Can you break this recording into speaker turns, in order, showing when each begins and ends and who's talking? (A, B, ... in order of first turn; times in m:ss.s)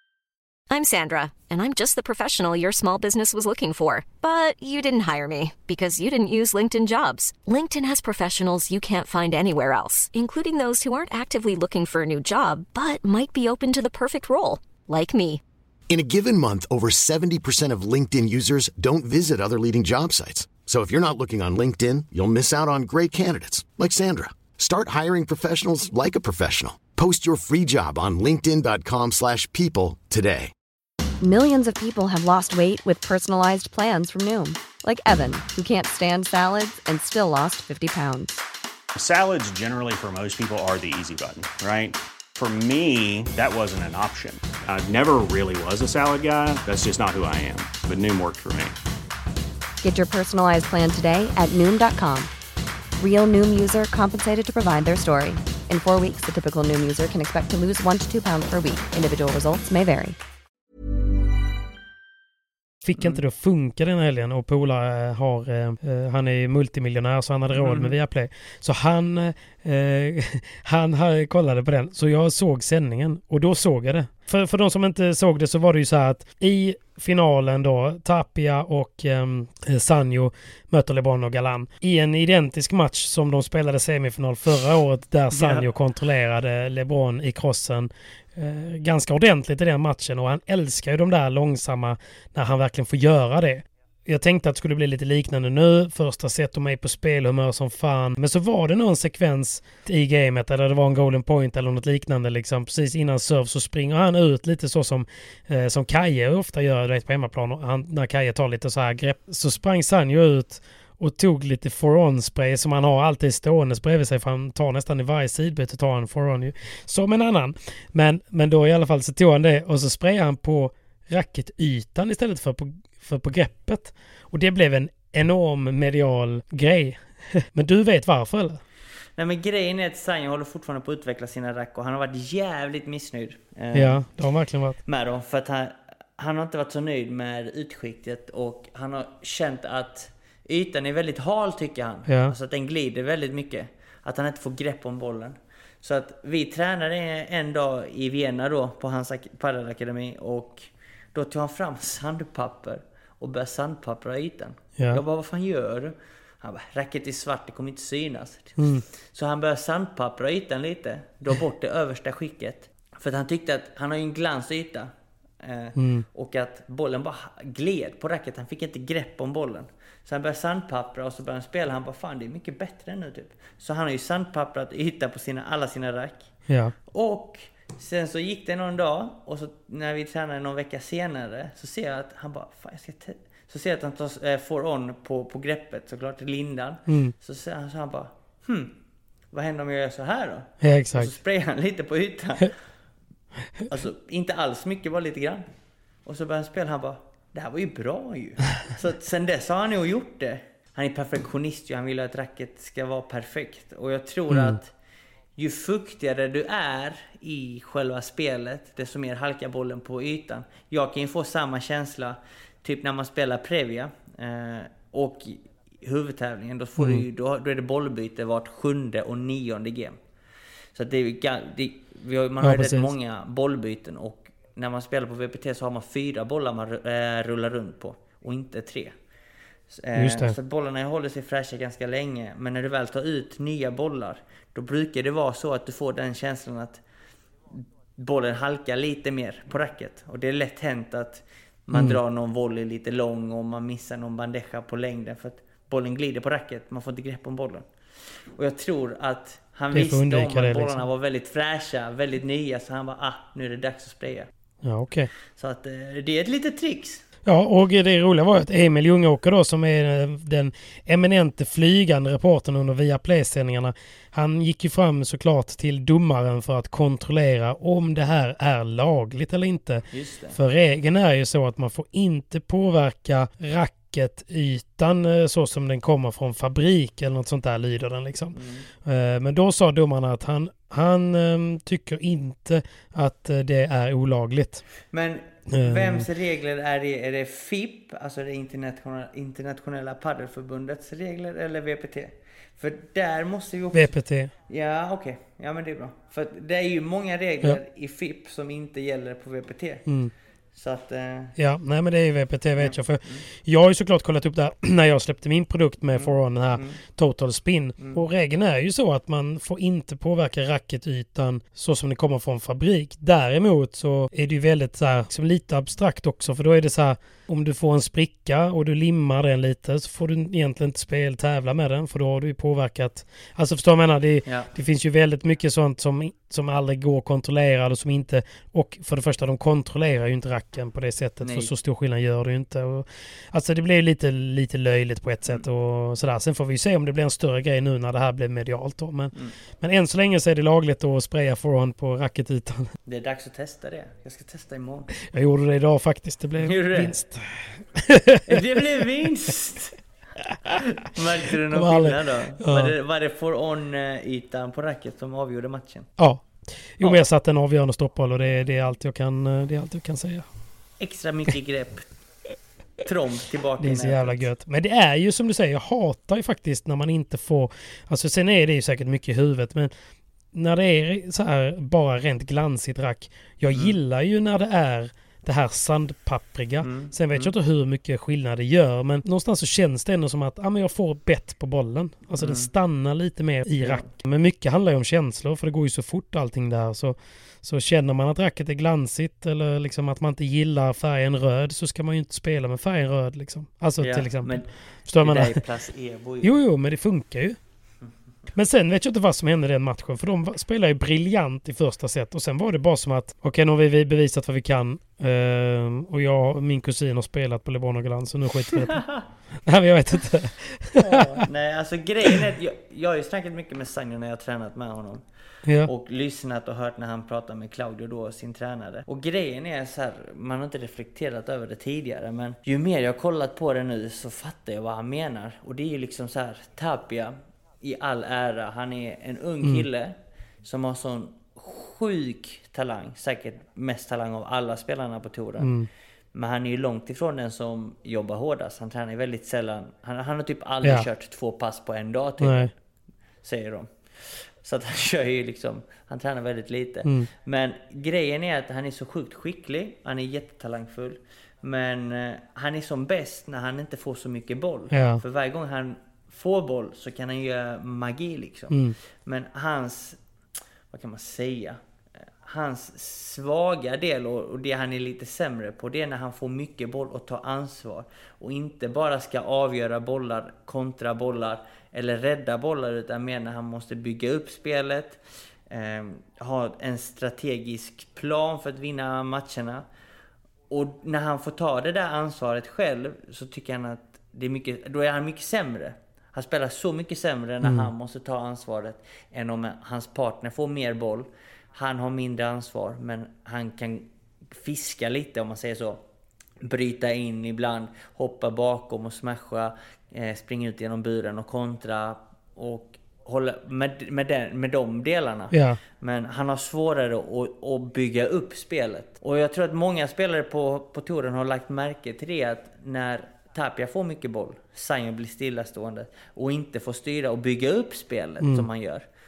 0:00.7-0:15.4 A
0:15.9-0:30.5 B
0:31.2-0:38.4 C
0:39.0-0:48.8 D
0:49.8-0:52.3 C
0:53.0-1:00.2 C
1:02.8-2:08.6 E
1:03.0-1:03.2 F
1:07.5-1:08.0 F
1:25.3-1:25.7 F
2:09.2-2:14.1 F
2:13.7-2:14.8 E
2:14.8-2:56.3 F
2:22.1-2:22.4 E
2:38.6-2:38.8 E
2:45.8-2:46.0 E
2:56.5-2:56.7 E
2:56.9-3:08.8 F
3:06.9-3:07.1 E
3:09.3-3:12.6 F
3:10.6-3:11.1 E
3:13.7-3:15.5 F
3:16.1-3:24.7 F
3:24.3-3:24.6 E
3:25.4-3:40.0 F
3:36.8-3:37.0 E
3:40.8-3:48.9 F
3:42.4-3:42.9 E
3:49.7-3:56.8 F
3:50.0-3:50.4 E
3:57.5-4:07.7 F
4:01.7-4:02.0 E
4:08.4-4:14.3 F
4:09.7-4:10.8 E
4:14.6-4:15.1 E
4:15.4-4:17.0 F
4:17.2-4:44.6 E
4:29.9-4:30.4 F
4:38.3-4:38.7 F
4:44.9-4:54.0 F
4:45.5-4:46.1 E
4:53.7-4:54.3 E
4:54.5-4:59.9 F
4:59.9-5:00.1 E
5:00.6-5:01.4 F
5:01.4-5:42.7 E
5:02.6-5:03.2 F
5:06.0-5:06.8 F
5:31.2-5:31.5 F
5:42.9-5:44.9 F
5:45.0-5:48.6 E
5:46.4-5:47.0 F
5:48.3-5:49.8 F
5:50.5-5:55.9 F
5:51.5-5:52.7 E
5:56.0-6:00.3 E
6:00.8-6:01.9 F
6:02.8-6:04.2 F
6:03.6-6:09.7 E
6:10.3-6:35.4 E
6:16.6-6:17.3 F
6:22.2-6:22.5 F
6:23.6-6:23.9 F
6:33.8-6:36.4 F
6:36.2-6:37.4 E
6:38.4-6:48.8 E
6:48.6-6:49.0 F
6:49.4-6:51.2 E
6:50.8-6:55.0 F
6:55.5-6:55.7 E
6:55.6-7:15.5 F
7:15.4-7:15.7 E
7:16.1-7:22.5 F
7:22.2-7:22.5 E
7:23.2-7:40.0 F
7:34.7-7:35.0 E
7:38.5-7:38.8 E
7:40.7-7:41.6 F
7:42.2-7:59.7 F
8:00.5-8:15.8 F
8:07.4-8:07.7 E
8:16.4-8:38.8 F
8:25.3-8:25.6 E
8:38.2-8:38.5 E